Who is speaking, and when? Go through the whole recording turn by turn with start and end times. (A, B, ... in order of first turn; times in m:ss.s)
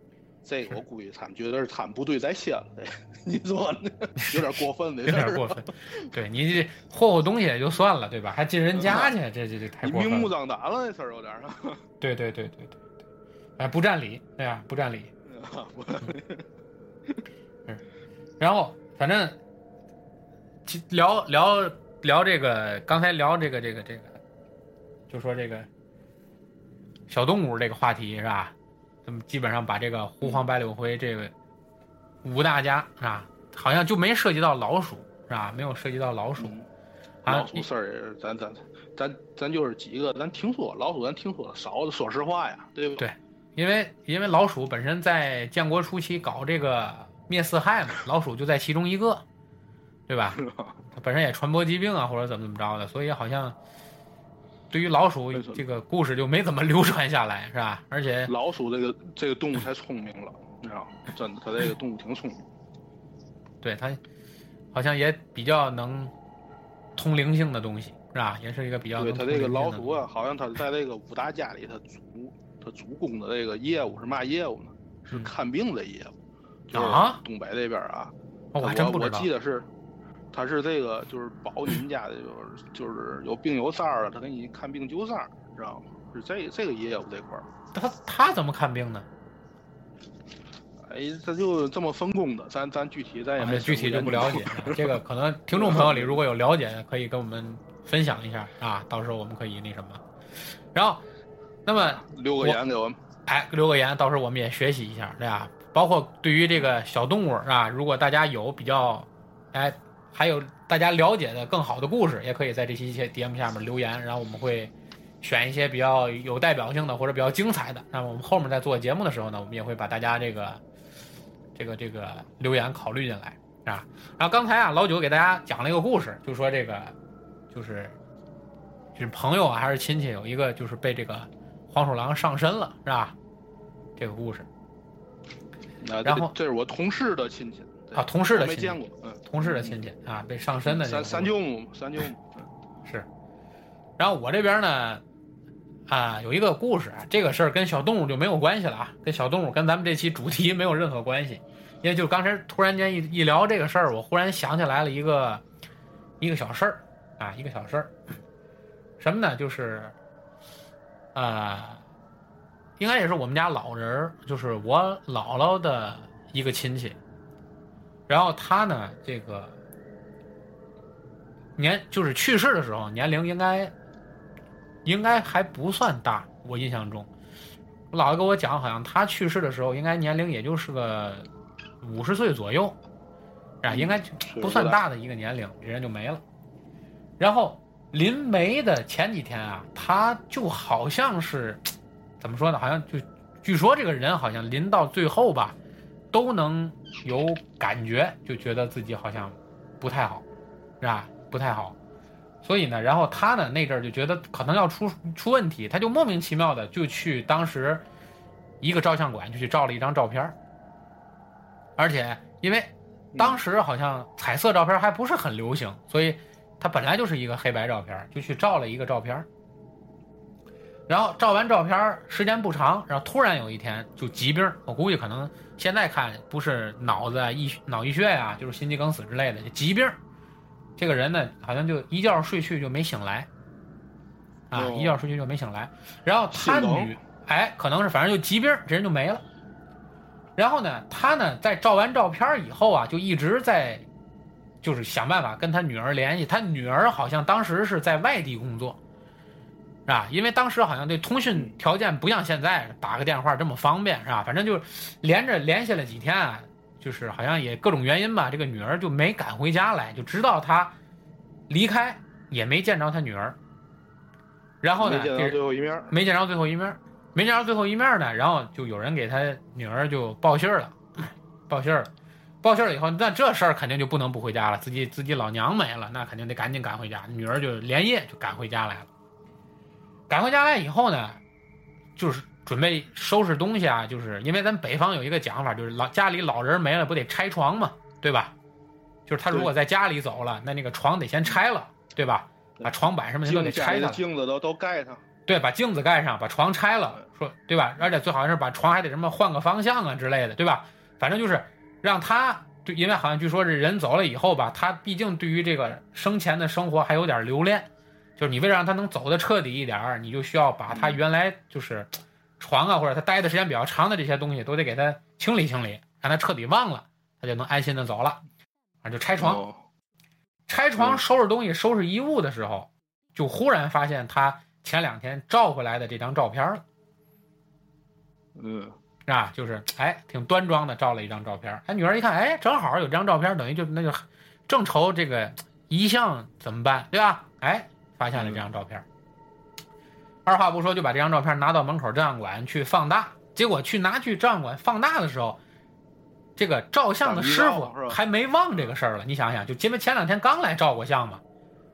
0:00.4-0:06.1 A
0:05.0-0:10.3 B
0:08.7-0:09.1 A
0:09.8-0:11.8 A
0:12.0-0:12.8 B
0:13.6-0:15.1 B
0:15.3-0:16.5 A
0:18.4-0:19.4 B
0:20.6-0:24.2 B
0:25.1-0:25.7 B
0:27.1-0:28.5 B
0:29.0-0:31.3 B
0:32.2-0:36.5 B
0:36.4-0:36.6 A
0:37.2-0:37.6 B
0:37.3-0:43.1 A
0:43.0-0:49.2 B
0:50.1-0:50.4 B
0:50.3-0:50.8 A
0:50.9-0:53.6 B
0:54.7-0:58.3 B
0:55.3-0:55.6 A
0:58.2-1:02.4 A
1:03.6-1:04.0 B
1:04.7-1:06.1 B
1:07.0-1:10.0 B
1:09.0-1:16.1 A
1:16.7-1:19.7 A
1:16.7-1:17.2 B
1:18.5-1:19.3 B
1:20.3-1:27.5 A
1:27.7-1:29.1 B
1:30.8-1:34.9 A
1:33.4-1:40.0 B
1:35.5-1:36.2 A
1:40.7-1:41.0 B
1:41.6-1:42.6 B
1:41.8-1:43.0 A
1:43.2-2:00.6 B
2:01.5-2:06.9 B
2:07.5-2:08.0 B
2:08.9-2:13.1 B
2:14.0-2:14.5 B
2:15.8-2:19.8 A
2:16.0-2:16.3 B
2:17.9-2:21.3 B
2:20.6-2:22.5 A
2:24.0-2:25.0 B
2:25.9-2:35.4 B
2:36.2-2:38.0 B
2:39.0-2:39.9 B
2:41.1-2:41.8 B
2:42.8-2:47.0 B
2:48.1-2:49.5 B
2:51.6-2:53.7 B
2:54.8-2:57.1 B
2:57.9-3:01.3 B
3:01.8-3:02.8 B
3:03.6-3:06.2 B
3:03.7-3:04.8 A
3:07.2-3:11.7 B
3:12.2-3:15.6 B
3:16.1-3:20.2 B
3:20.8-3:21.7 B
3:22.4-3:27.8 B
3:28.6-3:30.3 B
3:31.8-3:39.3 B
3:33.1-3:33.4 A
3:40.9-3:50.0 B
3:50.8-3:53.3 B
3:54.5-3:59.2 B
3:54.5-3:55.0 A
3:56.3-3:56.9 A
4:00.4-4:03.8 B
4:04.6-4:08.8 B
4:09.8-4:20.7 B
4:21.5-4:23.4 B
4:24.6-4:25.4 B
4:24.8-4:25.9 A
4:25.9-4:31.9 B
4:32.4-4:38.9 B
4:40.1-4:41.2 B
4:42.0-4:48.3 B
4:49.0-4:54.0 B
4:53.2-4:55.0 A
4:55.2-5:18.2 B
5:10.7-5:11.0 A
5:18.8-5:19.4 B
5:19.2-5:19.6 A
5:20.5-5:26.6 B
5:28.4-5:28.7 A
5:29.0-5:38.8 B
5:38.1-5:38.4 A
5:40.2-5:45.4 B
5:46.4-5:51.2 B
5:47.0-5:48.0 A